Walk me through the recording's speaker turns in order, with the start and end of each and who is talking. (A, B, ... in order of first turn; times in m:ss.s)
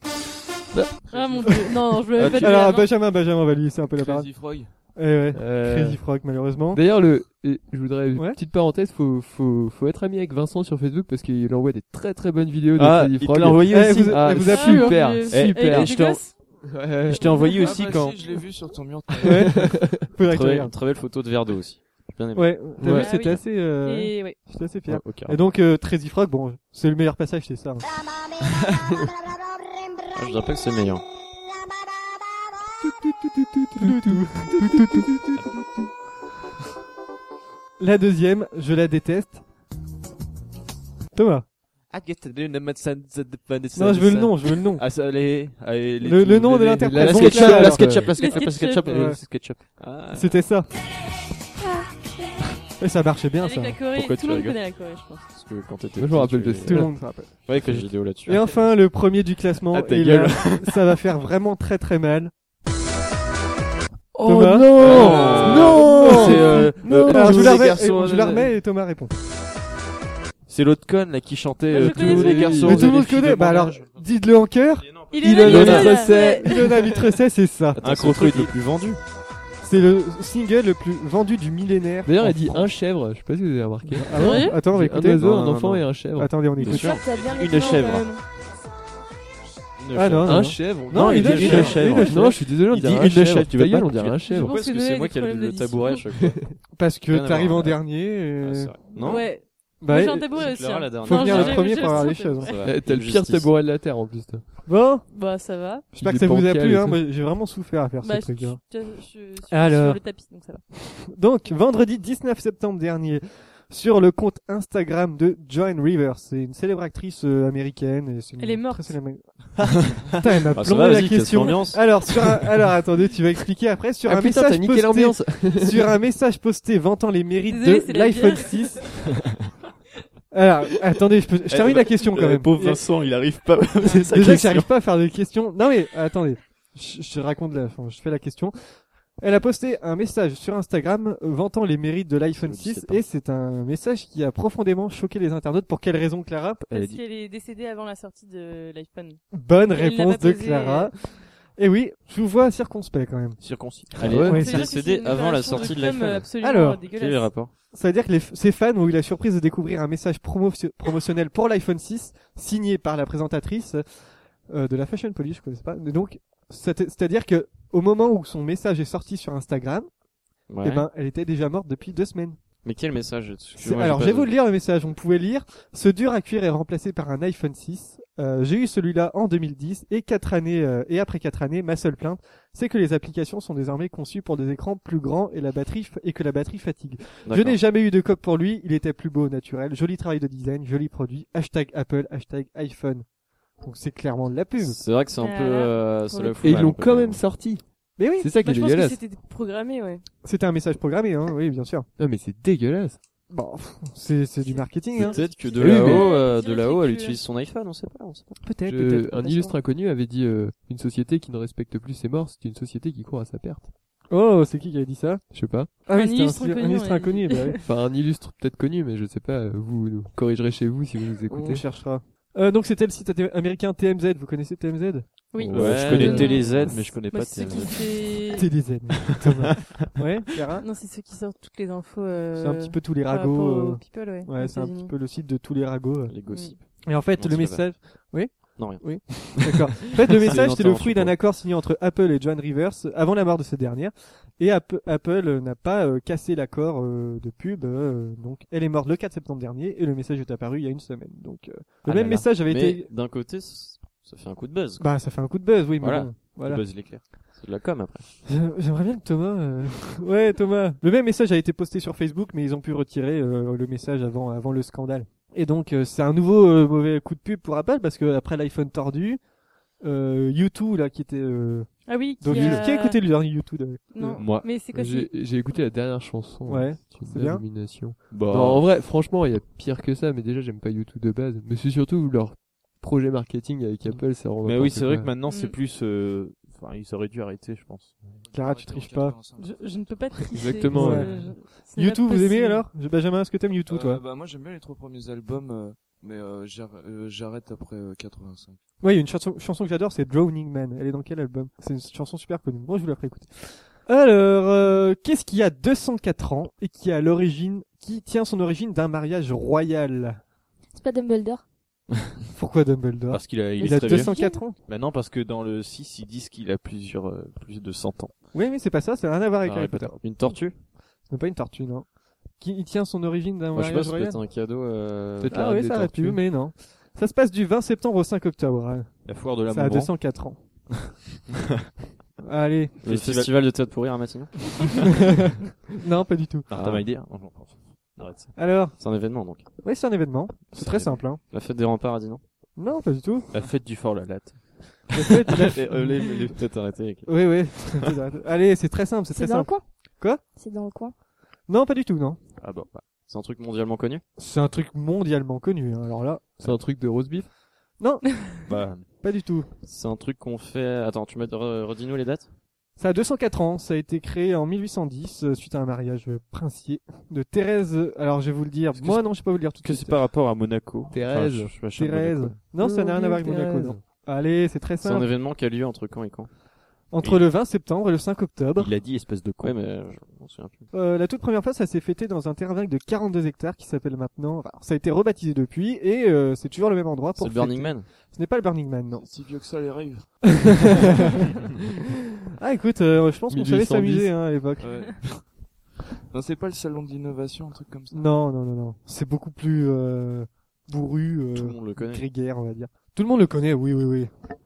0:00.7-0:01.0 A
0:01.1-0:01.6 B
0:01.1-0:02.9 C
0:02.2-0:02.6 D
0:02.3-0:06.8 E
0:04.0-0:04.7 B
0:05.3-0:06.0 A
0:06.7-0:16.0 A
0:08.1-0:08.4 E
0:12.7-0:16.4 D
0:13.7-0:15.0 E
0:14.5-0:16.6 C
0:16.6-0:17.2 A
0:17.1-0:18.2 D
0:17.2-0:17.5 C
0:17.3-0:19.7 B
0:19.2-0:20.7 E
0:19.3-0:20.1 A
0:20.3-0:22.8 F
0:22.3-0:27.9 E
0:22.8-0:23.1 A
0:22.8-0:24.4 C
0:24.9-0:25.3 D
0:30.1-0:31.0 F
0:33.3-0:35.0 A
0:33.8-0:35.8 E
0:37.8-0:39.4 E
0:41.1-0:41.4 E
0:41.9-0:50.1 D
0:43.7-0:44.8 E
0:46.0-0:48.1 E
0:46.8-0:48.4 A
0:48.1-0:49.0 C
0:48.9-0:49.2 E
0:49.8-0:50.2 F
0:50.1-0:50.7 E
0:52.8-0:53.8 E
0:53.4-0:55.2 C
0:54.0-0:54.5 F
0:54.1-0:54.5 D
0:55.3-0:56.9 F
0:56.0-0:57.2 A
0:56.6-0:57.4 E
0:57.5-0:57.8 D
0:57.5-0:58.6 F
0:58.2-1:02.3 E
0:59.7-1:00.9 D
1:04.2-1:07.6 A
1:04.2-1:09.1 E
1:04.7-1:08.5 D
1:04.9-1:05.5 F
1:10.5-1:13.9 D
1:11.7-1:12.6 C
1:11.7-1:12.9 A
1:12.6-1:18.4 E
1:15.1-1:16.9 C
1:15.2-1:17.1 A
1:15.4-1:15.8 F
1:17.8-1:19.0 D
1:17.8-1:18.6 F
1:19.6-1:22.7 E
1:22.0-1:26.5 A
1:23.9-1:25.5 E
1:24.1-1:24.6 C
1:25.2-1:25.9 F
1:26.1-1:27.0 E
1:26.6-1:27.0 F
1:26.6-1:28.1 D
1:26.7-1:28.2 C
1:27.3-1:27.8 G
1:29.8-1:32.4 F
1:29.9-1:32.4 E
1:30.2-1:34.5 A
1:30.9-1:34.2 D
1:34.2-1:36.0 C
1:34.2-1:36.4 F
1:36.1-1:36.6 A
1:36.8-1:38.9 E
1:37.1-1:37.8 F
1:38.4-1:39.3 F
1:39.0-1:42.6 C
1:39.8-1:42.5 E
1:40.3-1:43.5 F
1:42.6-1:44.4 A
1:44.6-1:45.1 E
1:45.1-1:45.9 C
1:45.9-1:48.6 E
1:46.0-1:47.0 A
1:48.0-1:50.6 C
1:49.5-1:50.1 E
1:51.0-2:09.1 E
1:58.4-1:59.0 C
2:00.5-2:02.0 F
2:04.0-2:05.8 A
2:07.5-2:08.8 C
2:10.3-2:12.8 E
2:11.5-2:14.7 D
2:13.8-2:18.6 E
2:19.2-2:27.0 E
2:22.4-2:23.0 F
2:26.7-2:31.0 C
2:29.3-2:34.7 E
2:33.4-2:34.2 D
2:34.0-2:36.3 F
2:34.0-2:34.6 A
2:34.2-2:37.3 C
2:36.4-2:36.8 E
2:36.9-2:37.5 F
2:37.7-2:49.9 E
2:50.5-2:50.9 F
2:50.6-2:52.4 E
2:52.6-2:54.3 F
2:53.6-3:13.0 E
3:07.2-3:07.6 F
3:13.6-3:14.8 E
3:14.6-3:17.2 F
3:15.2-3:16.6 C
3:16.4-3:17.6 A
3:18.0-3:18.3 E
3:18.2-3:19.0 A
3:18.4-3:20.0 C
3:20.2-3:21.9 E
3:22.0-3:23.0 A
3:23.3-3:25.3 E
3:24.4-3:27.2 C
3:25.0-3:28.4 F
3:25.6-3:26.1 A
3:28.4-3:29.6 E
3:28.6-3:33.7 A
3:34.1-3:37.6 E
3:35.3-3:35.7 A
3:35.9-3:37.6 C
3:37.6-3:41.6 A
3:41.3-3:45.1 E
3:45.3-3:48.5 C
3:45.4-3:47.9 D
3:45.5-3:47.7 F
3:48.3-3:50.7 E
3:50.6-3:54.9 C
3:52.3-4:12.9 E
3:56.1-3:57.8 F
3:56.3-3:56.5 C
3:58.5-4:01.1 F
4:11.8-4:14.9 F
4:14.8-4:16.6 E
4:15.8-4:18.1 F
4:16.4-4:17.0 D
4:18.2-4:29.2 E
4:29.8-4:34.2 E
4:31.9-4:33.0 C
4:32.3-4:32.6 A
4:33.9-4:35.1 C
4:34.2-4:34.6 D
4:34.6-4:45.1 A
4:36.4-4:37.5 E
4:38.1-4:38.8 D
4:44.3-4:48.0 D
4:45.2-4:45.6 C
4:48.2-4:49.7 B
4:48.3-4:49.2 E
4:49.4-4:52.6 C
4:50.3-4:51.4 A
4:50.7-4:54.0 E
4:53.7-4:58.6 B
4:58.8-5:10.2 E
5:10.7-5:11.4 G
5:12.3-5:14.6 E
5:13.1-5:14.1 D
5:13.6-5:14.4 G
5:13.7-5:14.0 F
5:14.6-5:18.1 D
5:18.3-5:20.2 E
5:19.4-5:19.9 D
5:19.7-5:20.6 F
5:21.1-5:21.9 E
5:22.4-5:24.2 E
5:23.5-5:25.5 F
5:25.2-5:26.2 A
5:25.3-5:30.4 E
5:29.0-5:29.9 D
5:32.2-5:32.8 E
5:32.8-5:35.1 F
5:32.8-5:33.3 D
5:35.8-5:36.5 E
5:36.5-5:38.3 D
5:36.5-5:36.9 F
5:38.0-5:39.5 F
5:38.4-5:38.8 E
5:39.6-5:41.2 E
5:40.5-5:42.2 F
5:42.6-5:43.3 E
5:43.3-5:46.4 D
5:44.9-5:46.2 E
5:45.7-5:47.4 F
5:47.0-5:50.2 E
5:49.1-5:49.6 G
5:50.3-5:50.9 G
5:51.5-5:52.2 E
5:52.4-5:52.9 D
5:53.0-5:54.0 F
5:54.2-5:56.6 E
5:56.4-5:57.3 A
5:57.8-5:58.3 E
5:58.4-5:58.9 D
5:58.9-5:59.5 E
5:59.6-6:02.3 F
6:02.8-6:10.0 E
6:08.8-6:12.4 D
6:10.9-6:11.6 A
6:11.8-6:15.1 E
6:12.6-6:13.8 A
6:14.8-6:16.3 F
6:16.9-6:18.7 E
6:17.0-6:17.3 D
6:18.6-6:19.6 D
6:19.4-6:20.7 F
6:20.7-6:29.1 E
6:27.2-6:27.9 F
6:29.0-6:31.0 B
6:30.4-6:31.2 E
6:32.4-6:34.9 E
6:33.3-6:34.1 A
6:34.6-6:35.4 B
6:36.1-6:38.1 B
6:37.9-6:44.1 E
6:41.3-6:42.0 F